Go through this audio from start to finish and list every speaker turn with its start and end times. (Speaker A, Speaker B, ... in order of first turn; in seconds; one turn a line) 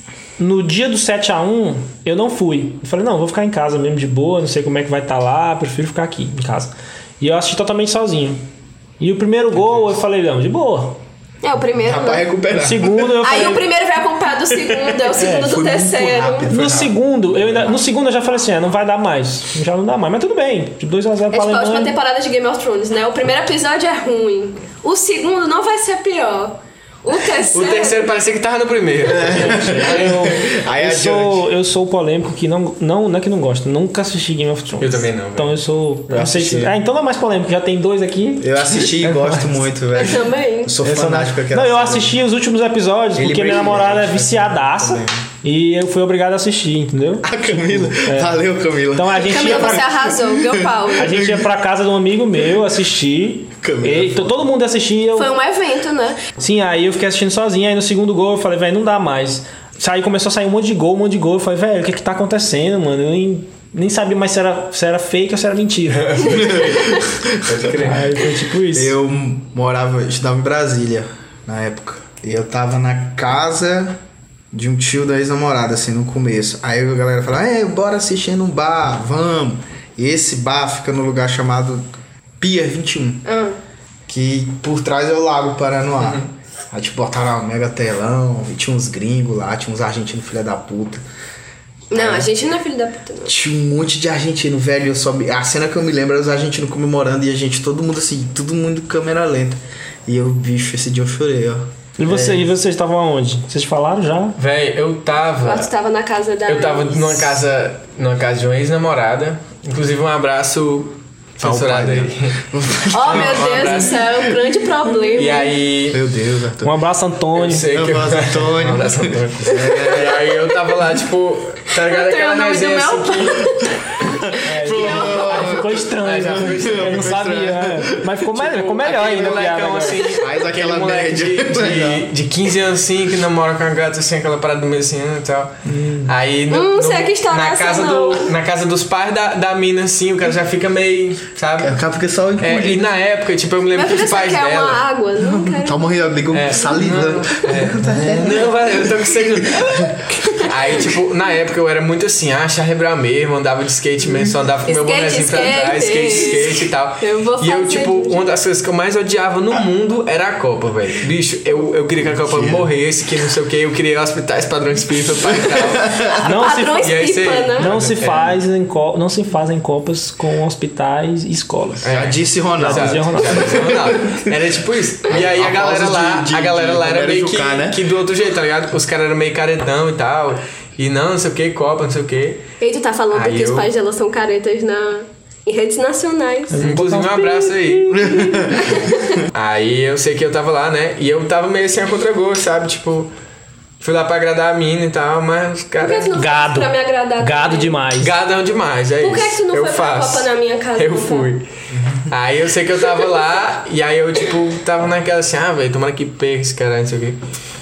Speaker A: 0.4-8.4
Speaker A: 9.0-11.0
Speaker B: 9.6-9.8
Speaker C: 11.4-12.2
Speaker D: 11.7-13.4
Speaker A: 12.6-13.7
Speaker C: 13.2-16.5
Speaker D: 14.6-16.9
Speaker A: 15.2-15.5
Speaker A: 16.5-21.9
Speaker C: 21.3-28.0
Speaker B: 27.5-30.4
Speaker D: 29.0-31.5
Speaker A: 29.2-39.7
Speaker B: 34.8-35.6
Speaker D: 36.1-36.8
Speaker D: 38.4-42.2
Speaker C: 39.9-40.8
Speaker A: 40.8-49.9
Speaker D: 43.1-45.2
Speaker D: 47.2-51.5
Speaker C: 49.1-51.2
Speaker A: 50.9-55.3
Speaker D: 53.6-54.5
Speaker C: 55.1-56.2
Speaker A: 56.4-66.4
Speaker B: 65.9-68.1
Speaker D: 66.3-74.0
Speaker A: 67.8-68.9
Speaker D: 74.5-81.8
Speaker D: 82.4-83.2
Speaker C: 83.2-83.6
Speaker D: 84.1-91.0
Speaker B: 86.0-86.3
Speaker C: 91.9-93.3
Speaker D: 91.9-92.3
Speaker D: 93.2-102.5
Speaker A: 102.0-104.4
Speaker B: 104.4-105.7
Speaker C: 105.4-107.4
Speaker B: 106.5-112.3
Speaker D: 111.4-114.0
Speaker C: 112.9-115.6
Speaker B: 113.0-114.1
Speaker B: 115.1-116.0
Speaker D: 115.9-116.8
Speaker A: 116.6-117.7
Speaker B: 117.3-123.5
Speaker D: 117.5-120.2
Speaker C: 119.6-120.4
Speaker C: 121.8-123.7
Speaker D: 124.2-132.1
Speaker A: 124.4-130.1
Speaker C: 124.7-125.6
Speaker B: 126.0-127.2
Speaker B: 128.3-141.8
Speaker A: 135.6-136.1
Speaker C: 136.5-138.3
Speaker D: 141.6-142.9
Speaker B: 142.4-144.8
Speaker C: 143.7-145.9
Speaker D: 145.2-150.1
Speaker B: 146.3-166.0
Speaker C: 146.6-147.4
Speaker C: 150.2-150.6
Speaker C: 154.7-158.2
Speaker D: 162.0-162.7
Speaker D: 165.3-166.2
Speaker C: 166.1-167.7
Speaker A: 166.2-167.0
Speaker B: 166.8-168.4
Speaker A: 167.6-171.9
Speaker D: 171.8-174.2
Speaker B: 171.8-182.5
Speaker A: 172.6-173.7
Speaker D: 175.1-177.9
Speaker C: 182.6-186.6
Speaker B: 183.1-183.7
Speaker A: 186.5-188.6
Speaker B: 186.6-188.1
Speaker D: 187.9-188.8
Speaker C: 188.5-189.2
Speaker B: 189.3-193.1
Speaker B: 193.8-196.1
Speaker C: 195.8-197.8
Speaker A: 196.1-198.1
Speaker B: 198.0-201.4
Speaker C: 199.0-201.3
Speaker D: 201.7-202.2
Speaker B: 202.1-207.2